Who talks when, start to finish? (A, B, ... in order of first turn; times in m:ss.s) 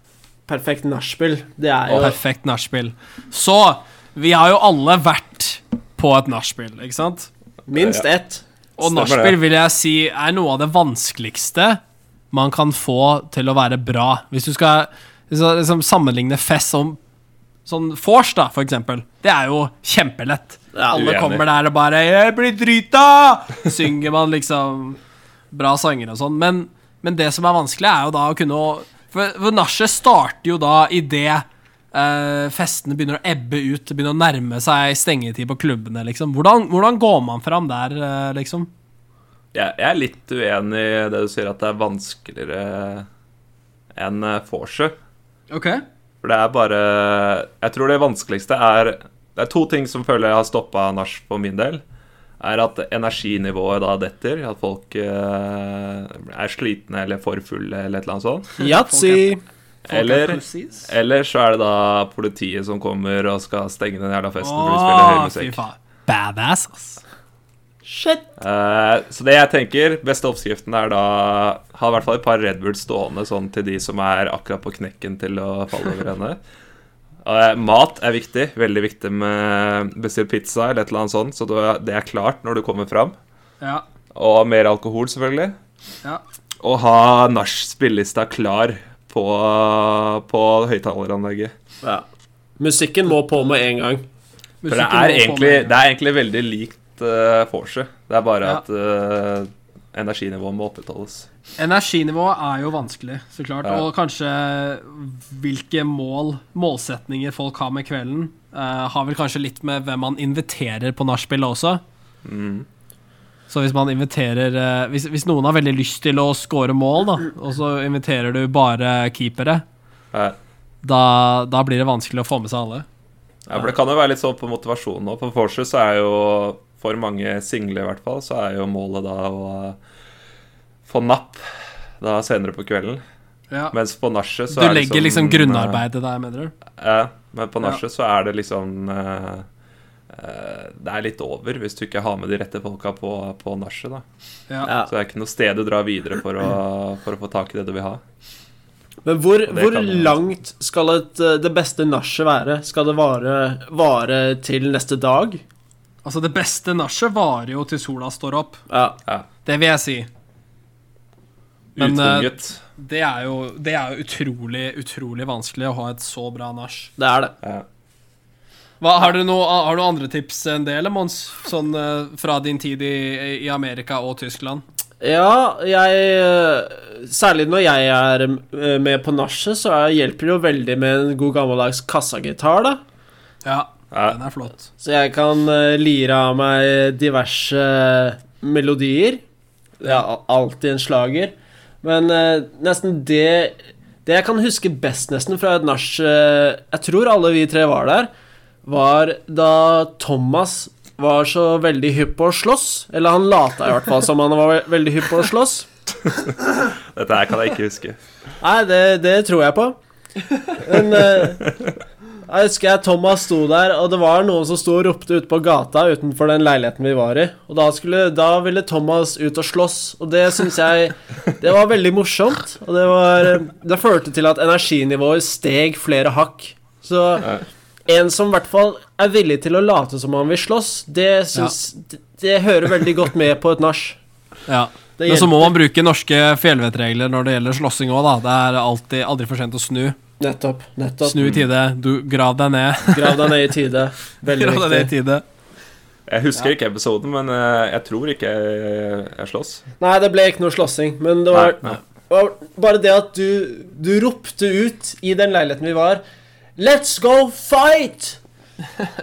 0:00.5-0:02.2 A
0:01.9-0:07.3 B
0:07.7-0:08.4 A
0:07.7-0:08.0 C
0:08.8-0:11.8 B
0:08.8-0:09.4 C
0:12.3-0:17.0 B
0:17.6-0:25.0 B
0:20.7-0:21.0 A
0:20.9-0:21.4 C
0:25.5-0:38.7 B
0:39.5-0:43.1 C
0:43.9-0:44.9 C
0:45.5-0:45.8 B
0:46.2-0:51.8 C
0:52.4-0:58.5 C
0:58.6-0:59.4 A
0:58.6-0:59.4 B
0:59.8-1:05.6 C
0:59.9-1:00.9 B
1:04.4-1:07.0 B
1:07.8-1:08.2 A
1:08.4-1:16.4 C
1:17.2-1:23.2 C
1:24.1-1:25.6 C
1:26.6-1:31.5 C
1:32.6-1:34.0 A
1:34.6-1:35.7 B
1:34.7-1:41.3 C
1:41.6-1:51.8 B
1:52.2-1:52.7 C
1:53.5-1:59.6 B
2:00.8-2:02.8 B
2:03.5-2:09.8 C
2:10.9-2:11.4 C
2:12.0-2:13.0 C
2:13.7-2:15.8 C
2:14.5-2:16.5 B
2:16.8-2:19.4 C
2:20.1-2:24.0 C
2:24.6-2:24.9 A
2:24.9-2:28.0 C
2:29.0-2:35.4 A
2:29.5-2:30.2 C
2:36.0-2:38.6 B
2:38.7-2:39.0 A
2:39.4-2:40.1 B
2:41.8-2:42.6 C
2:41.8-2:46.9 B
2:47.0-2:47.3 A
2:48.8-2:54.6 B
2:55.0-3:02.8 A
3:03.4-3:04.6 B
3:03.9-3:04.2 C
3:04.8-3:09.2 A
3:09.8-3:18.1 A
3:18.6-3:25.7 A
3:26.2-3:28.0 C
3:28.4-3:29.8 A
3:30.5-3:31.5 A
3:32.3-3:54.0 A
3:54.5-4:00.0 B
3:55.0-3:55.5 A
4:00.2-4:01.3 A
4:01.0-4:03.5 B
4:01.2-4:01.5 C
4:02.9-4:04.9 A
4:04.3-4:05.2 B
4:06.1-4:09.6 C
4:09.8-4:16.0 A
4:11.3-4:11.8 C
4:16.6-4:18.2 A